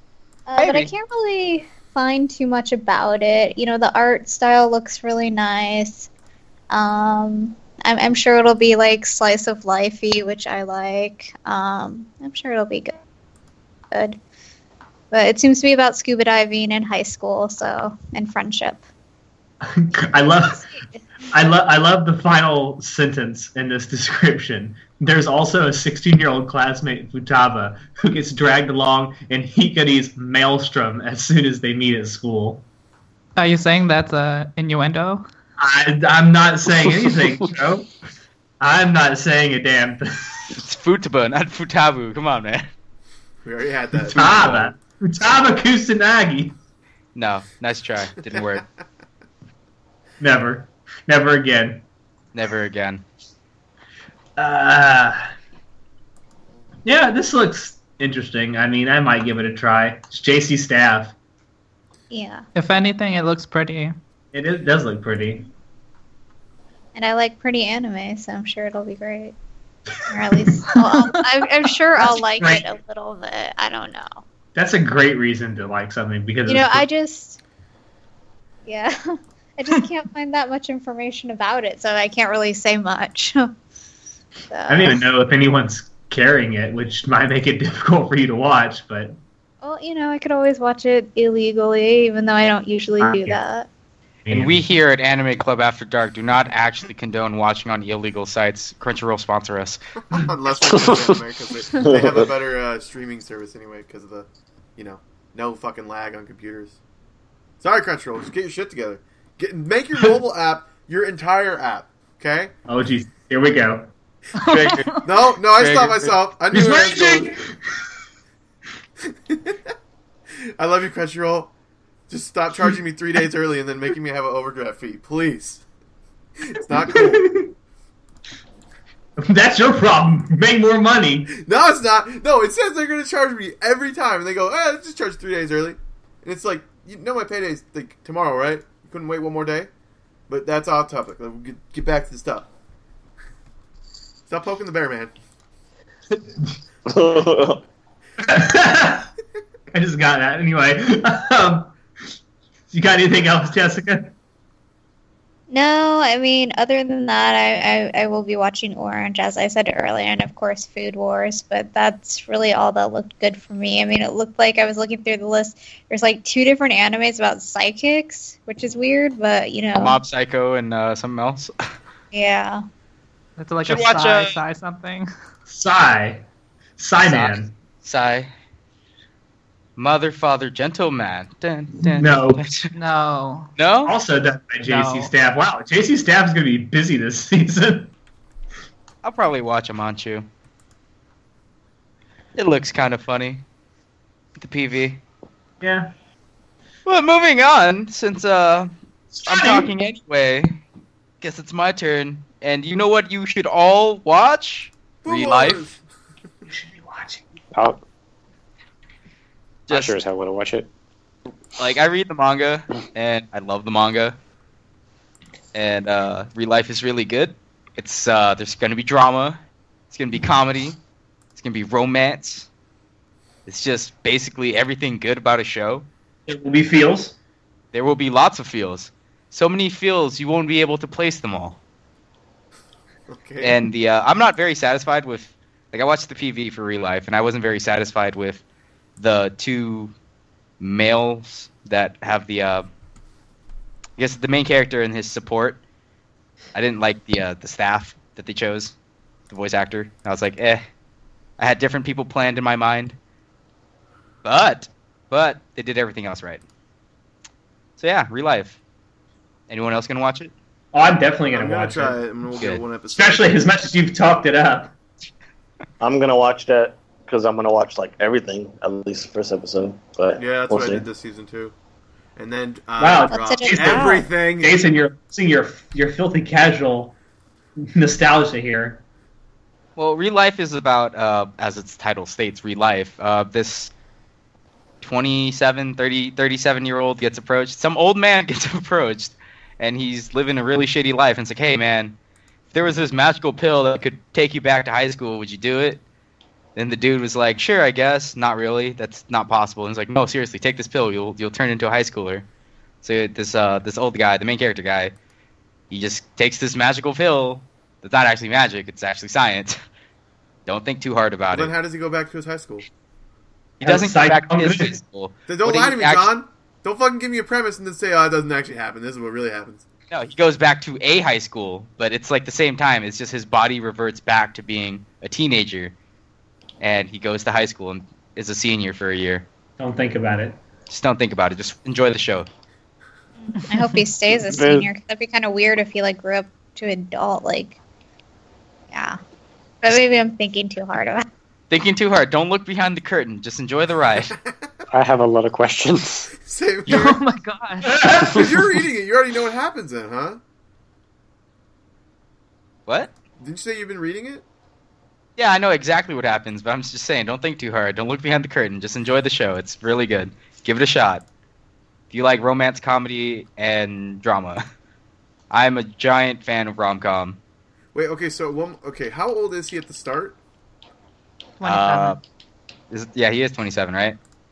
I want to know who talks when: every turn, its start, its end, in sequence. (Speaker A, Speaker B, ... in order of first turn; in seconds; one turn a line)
Speaker A: 0.5-6.1
Speaker B: 0.6-0.9
Speaker A: 6.7-13.0
Speaker A: 13.9-14.2
Speaker A: 15.1-18.9
Speaker C: 19.6-20.7
Speaker C: 21.3-32.6
Speaker D: 33.4-35.3
Speaker C: 35.6-37.9
Speaker C: 38.6-40.6
Speaker B: 40.6-42.7
Speaker E: 43.4-44.7
Speaker B: 44.1-44.7
Speaker C: 44.1-46.6
Speaker B: 47.1-48.6
Speaker C: 50.2-51.8
Speaker B: 52.3-53.0
Speaker C: 54.4-55.3
Speaker C: 56.9-61.1
Speaker A: 62.1-62.5
Speaker D: 62.5-63.9
Speaker C: 64.3-65.5
Speaker A: 67.0-69.4
Speaker A: 70.1-74.2
Speaker C: 72.0-72.7
Speaker C: 74.5-76.8
Speaker A: 76.5-77.4
Speaker A: 78.7-83.5
Speaker A: 84.5-85.0
Speaker C: 84.7-89.2
Speaker A: 89.6-93.7
Speaker C: 93.0-93.4
Speaker C: 94.3-94.6
Speaker B: 94.3-99.8
Speaker E: 100.1-106.8
Speaker F: 101.8-102.2
Speaker E: 107.6-112.5
Speaker C: 112.7-113.9
Speaker D: 114.4-114.9
Speaker E: 114.5-117.3
Speaker B: 115.6-116.0
Speaker C: 116.5-117.6
Speaker E: 119.1-119.6
Speaker E: 120.6-121.5
Speaker E: 122.1-125.7
Speaker E: 126.4-127.4
Speaker C: 126.9-127.5
Speaker C: 129.2-131.3
Speaker E: 131.3-139.7
Speaker E: 140.3-142.5
Speaker E: 144.3-145.1
Speaker C: 146.1-146.5
Speaker F: 146.9-147.6
Speaker C: 148.2-149.1
Speaker C: 149.7-151.7
Speaker C: 152.7-154.1
Speaker A: 155.5-170.0
Speaker B: 169.8-171.5
Speaker A: 172.1-172.6
Speaker D: 173.4-175.1
Speaker B: 173.7-174.4
Speaker C: 175.5-176.2
Speaker C: 176.8-177.5
Speaker B: 177.0-178.3
Speaker B: 179.8-182.7
Speaker C: 181.9-182.4
Speaker D: 182.7-183.5
Speaker B: 183.6-184.0
Speaker C: 183.9-187.9
Speaker D: 184.7-185.1
Speaker B: 189.0-190.3
Speaker B: 192.4-193.4
Speaker B: 194.4-195.0
Speaker C: 195.6-195.9
Speaker B: 196.8-198.7
Speaker C: 199.1-199.7
Speaker B: 199.3-200.6
Speaker B: 201.2-205.6
Speaker E: 205.0-205.8
Speaker C: 206.5-207.2
Speaker G: 207.5-207.8
Speaker B: 209.7-209.9
Speaker G: 209.7-210.7
Speaker B: 211.6-214.2
Speaker B: 215.5-219.4
Speaker B: 219.9-220.8
Speaker B: 221.4-222.5
Speaker B: 223.5-225.9
Speaker C: 226.3-227.1
Speaker B: 227.7-231.6
Speaker E: 233.1-233.6
Speaker B: 233.4-238.4
Speaker B: 239.0-239.9
Speaker B: 240.6-242.7
Speaker B: 244.0-245.6
Speaker B: 246.5-248.7
Speaker B: 249.3-250.6
Speaker B: 251.4-253.0
Speaker B: 254.2-256.4
Speaker B: 257.8-258.6
Speaker B: 259.5-260.3
Speaker C: 260.7-262.0
Speaker E: 261.3-263.5
Speaker C: 262.9-264.7
Speaker F: 265.8-270.8
Speaker E: 270.2-271.6
Speaker E: 272.2-274.6
Speaker C: 272.8-276.9
Speaker A: 273.1-274.1
Speaker C: 277.7-278.8
Speaker B: 279.8-283.7
Speaker B: 284.8-291.9
Speaker B: 292.5-295.8
Speaker B: 296.6-302.2
Speaker B: 302.8-304.9
Speaker B: 305.7-309.6
Speaker B: 310.5-311.5
Speaker E: 311.3-312.6
Speaker C: 313.6-314.7
Speaker B: 313.6-316.1
Speaker E: 315.3-319.7
Speaker B: 319.9-325.7
Speaker B: 326.6-329.2
Speaker C: 329.6-330.4
Speaker B: 330.7-332.3
Speaker A: 333.5-337.6
Speaker A: 338.7-339.0
Speaker A: 339.6-341.1
Speaker B: 341.5-344.2
Speaker G: 344.7-346.1
Speaker E: 346.2-347.0
Speaker D: 346.7-347.8
Speaker C: 347.7-348.2
Speaker E: 348.0-350.2
Speaker B: 352.7-352.9
Speaker E: 353.2-354.2
Speaker B: 355.2-361.0
Speaker B: 361.9-364.4
Speaker B: 365.3-367.2
Speaker E: 367.7-370.2
Speaker D: 371.4-372.0
Speaker B: 371.4-372.0
Speaker B: 372.7-374.0